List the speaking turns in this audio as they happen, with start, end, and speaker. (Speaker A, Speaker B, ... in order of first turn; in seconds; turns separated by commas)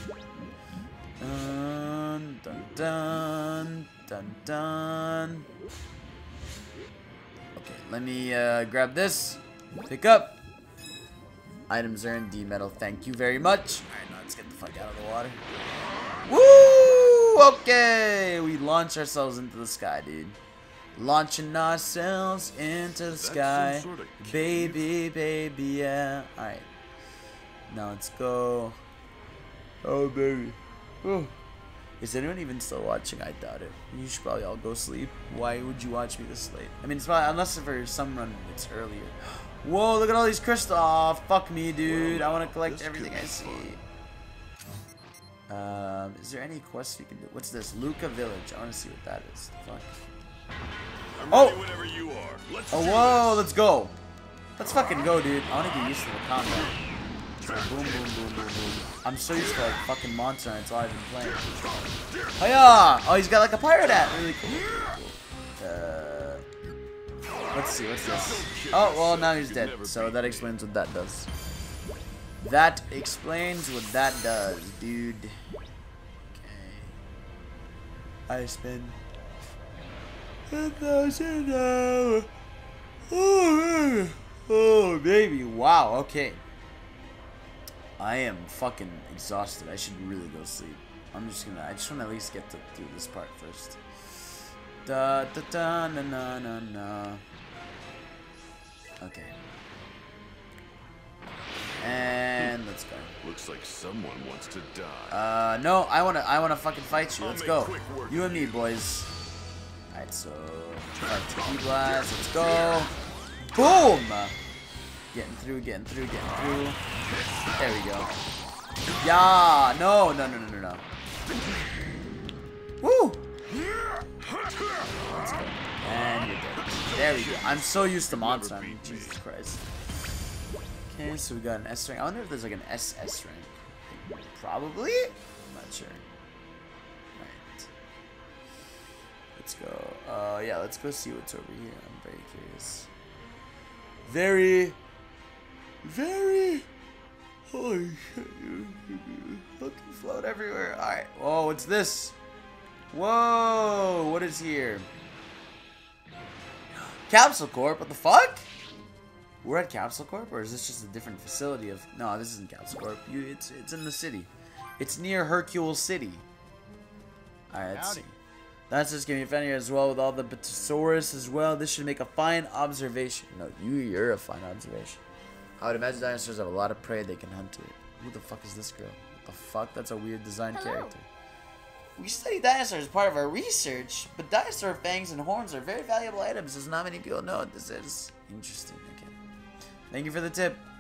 Speaker A: 1.2-5.5, Speaker A: 7.6-10.4, Speaker A: 11.7-15.4, Speaker A: 16.3-20.4, Speaker A: 20.9-26.7, Speaker B: 23.1-24.8, Speaker A: 27.7-28.8, Speaker A: 29.8-31.3, Speaker A: 32.0-43.8, Speaker B: 41.8-43.8, Speaker A: 45.5-50.0, Speaker B: 51.2-53.5, Speaker A: 51.3-51.6, Speaker A: 52.7-54.0, Speaker A: 54.6-56.7, Speaker A: 57.4-61.5, Speaker B: 57.4-58.1, Speaker B: 61.6-62.4, Speaker A: 62.4-66.5, Speaker A: 67.5-71.3, Speaker B: 68.0-70.5, Speaker A: 72.4-75.4, Speaker A: 76.3-77.0, Speaker A: 78.3-79.0, Speaker A: 80.5-82.3, Speaker A: 83.1-86.4, Speaker A: 88.0-93.8, Speaker A: 94.8-97.2, Speaker A: 99.0-99.3, Speaker A: 101.8-103.2, Speaker B: 103.2-105.2, Speaker A: 105.1-109.1, Speaker B: 107.2-108.6, Speaker A: 109.9-112.9, Speaker B: 111.0-112.9, Speaker A: 113.5-114.3, Speaker A: 115.1-116.8, Speaker A: 117.6-118.1, Speaker A: 119.0-120.8, Speaker A: 122.8-123.2, Speaker A: 125.0-129.7, Speaker B: 126.6-129.2, Speaker A: 130.9-136.0, Speaker A: 137.2-137.7, Speaker A: 139.4-142.9, Speaker A: 144.1-144.8, Speaker A: 145.8-146.7, Speaker A: 147.5-152.2, Speaker A: 152.9-154.9, Speaker A: 157.1-158.5, Speaker A: 159.4-166.2, Speaker A: 167.5-168.2, Speaker A: 168.7-175.0, Speaker A: 175.6-181.1, Speaker A: 182.0-189.2, Speaker A: 189.9-190.7